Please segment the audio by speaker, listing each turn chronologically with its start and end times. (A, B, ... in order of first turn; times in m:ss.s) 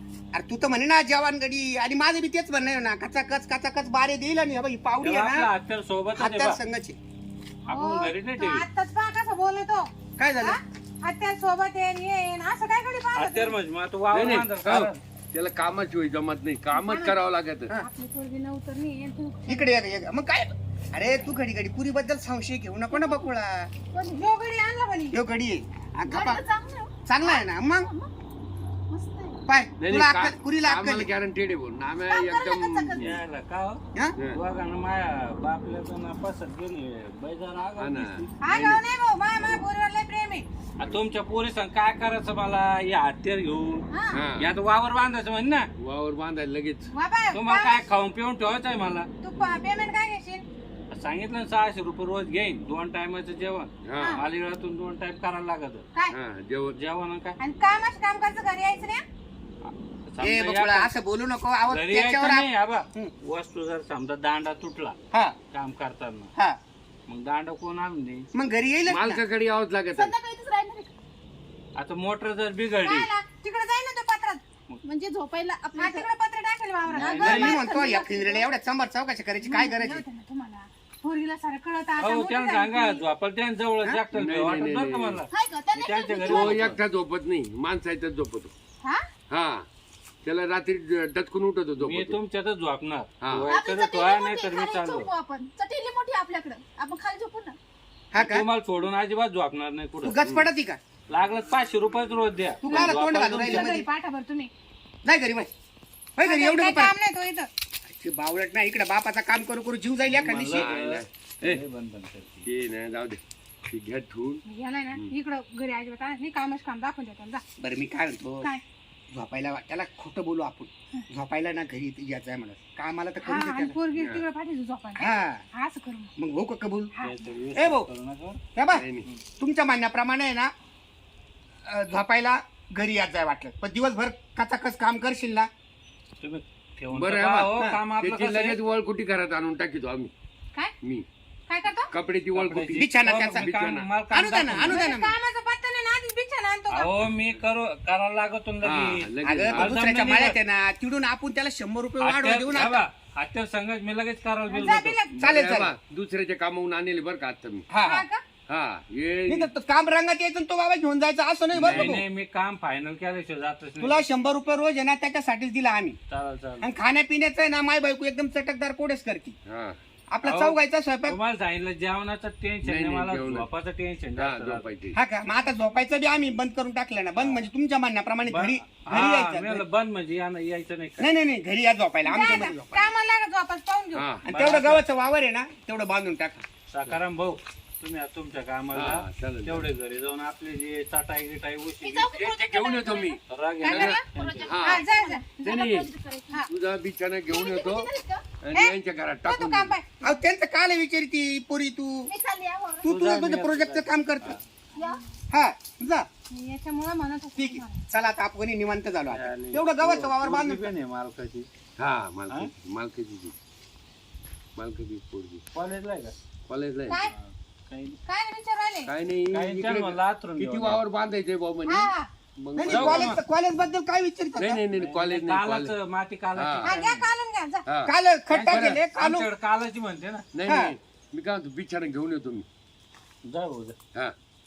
0:00.3-0:05.5 A
0:05.0-0:06.6 B
0:06.2-0:07.0 A
0:07.7-0:08.6 B
0:07.7-0:09.9 C
0:10.2-0:10.6 A
0:10.4-0:13.6 C
0:13.1-0:15.0 B
0:14.1-0:17.7 D
0:16.7-0:17.1 C
0:17.7-0:19.8 C
0:19.5-0:23.7 A
0:22.9-0:23.3 E
0:23.9-0:24.2 E
0:24.1-0:25.2 C
0:25.1-0:26.4 A
0:26.1-0:28.1 E
0:27.1-0:27.9 A
0:28.9-0:29.4 E
0:29.5-0:31.1 A
0:29.8-0:33.2 D
0:32.1-0:33.2 E
0:33.0-0:38.5 B
0:37.8-0:38.8 D
0:38.4-0:40.4 C
0:40.8-0:45.7 B
0:43.9-0:44.2 C
0:44.1-0:44.5 D
0:45.8-0:46.9 D
0:46.9-0:47.9 C
0:47.3-0:49.1 B
0:49.2-0:50.4 C
0:50.9-0:55.9 B
0:53.8-0:54.2 D
0:56.1-0:56.8 D
0:56.7-0:57.4 B
0:57.4-0:59.0 C
0:59.6-1:00.9 B
1:00.2-1:03.1 A
1:01.7-1:05.0 B
1:05.5-1:06.3 B
1:07.1-1:08.3 B
1:08.3-1:09.2 A
1:08.8-1:10.1 D
1:09.9-1:10.9 E
1:11.8-1:13.1 B
1:12.8-1:14.4 C
1:14.8-1:16.1 E
1:15.8-1:17.5 C
1:16.9-1:17.6 B
1:17.0-1:18.5 E
1:17.2-1:20.0 A
1:19.4-1:23.0 C
1:22.0-1:26.7 B
1:24.1-1:25.2 D
1:25.3-1:26.6 E
1:26.2-1:28.5 D
1:29.3-1:29.6 D
1:30.2-1:32.2 D
1:31.8-1:35.1 B
1:33.2-1:33.5 D
1:33.5-1:37.6 E
1:38.1-1:38.4 A
1:38.2-1:40.2 B
1:40.0-1:40.8 A
1:40.2-1:40.5 D
1:41.1-1:43.8 B
1:42.6-1:43.9 A
1:42.6-1:44.5 C
1:45.0-1:45.5 A
1:46.2-1:46.9 A
1:46.2-1:47.5 C
1:47.8-1:50.7 A
1:50.1-1:52.5 B
1:50.5-1:51.6 D
1:52.4-1:54.4 D
1:54.4-1:57.4 C
1:57.6-1:58.5 A
1:59.1-2:03.8 A
2:03.2-2:06.1 C
2:03.9-2:04.2 D
2:05.0-2:05.4 A
2:06.2-2:06.9 A
2:06.9-2:07.2 C
2:07.0-2:08.4 B
2:07.5-2:07.9 A
2:08.5-2:08.8 A
2:08.7-2:09.1 D
2:09.4-2:10.5 A
2:11.6-2:15.5 A
2:16.2-2:18.6 B
2:16.9-2:20.1 D
2:21.5-2:21.9 C
2:21.9-2:23.9 D
2:22.3-2:24.7 B
2:22.7-2:23.5 A
2:24.1-2:25.2 A
2:24.6-2:26.9 C
2:26.7-2:30.4 B
2:27.1-2:27.4 D
2:28.6-2:29.7 D
2:29.2-2:32.8 A
2:32.0-2:35.1 B
2:34.5-2:35.1 C
2:35.2-2:35.7 A
2:35.2-2:37.7 D
2:37.7-2:38.0 A
2:37.8-2:38.2 C
2:38.5-2:39.5 D
2:39.3-2:42.0 A
2:41.5-2:44.0 B
2:41.6-2:42.0 D
2:43.8-2:46.0 A
2:46.1-2:46.7 B
2:46.6-2:49.4 A
2:49.5-2:49.8 D
2:50.1-2:51.2 A
2:50.2-2:54.7 B
2:52.6-2:53.5 D
2:54.1-2:55.0 D
2:54.9-2:59.6 A
2:57.2-2:57.5 B
2:58.2-3:01.1 B
3:01.0-3:02.9 A
3:02.0-3:04.0 C
3:03.9-3:04.5 D
3:04.2-3:06.4 A
3:04.4-3:04.8 B
3:06.7-3:12.4 B
3:08.7-3:09.7 D
3:11.8-3:16.4 E
3:12.3-3:14.8 D
3:13.3-3:14.5 B
3:13.6-3:14.0 C
3:14.6-3:15.5 C
3:15.4-3:15.9 D
3:16.5-3:19.8 D
3:17.3-3:18.2 E
3:18.5-3:19.9 C
3:20.0-3:22.1 A
3:22.1-3:22.9 E
3:22.8-3:24.4 A
3:22.8-3:24.4 B
3:24.8-3:25.0 E
3:25.3-3:26.1 A
3:26.3-3:27.8 C
3:27.4-3:30.7 A
3:29.1-3:31.5 B
3:31.8-3:33.3 D
3:34.6-3:35.4 D
3:35.5-3:36.1 B
3:36.5-3:37.0 D
3:36.9-3:37.1 C
3:37.0-3:38.0 B
3:38.0-3:38.9 C
3:38.9-3:43.2 D
3:39.3-3:40.8 B
3:41.7-3:42.1 C
3:42.6-3:44.6 A
3:42.6-3:43.2 B
3:44.3-3:45.7 D
3:44.7-3:47.0 B
3:46.3-3:47.0 D
3:46.6-3:47.6 C
3:47.6-3:48.8 D
3:47.8-3:49.3 A
3:48.3-3:50.2 B
3:50.3-3:52.4 D
3:50.4-3:50.7 A
3:53.2-3:53.8 B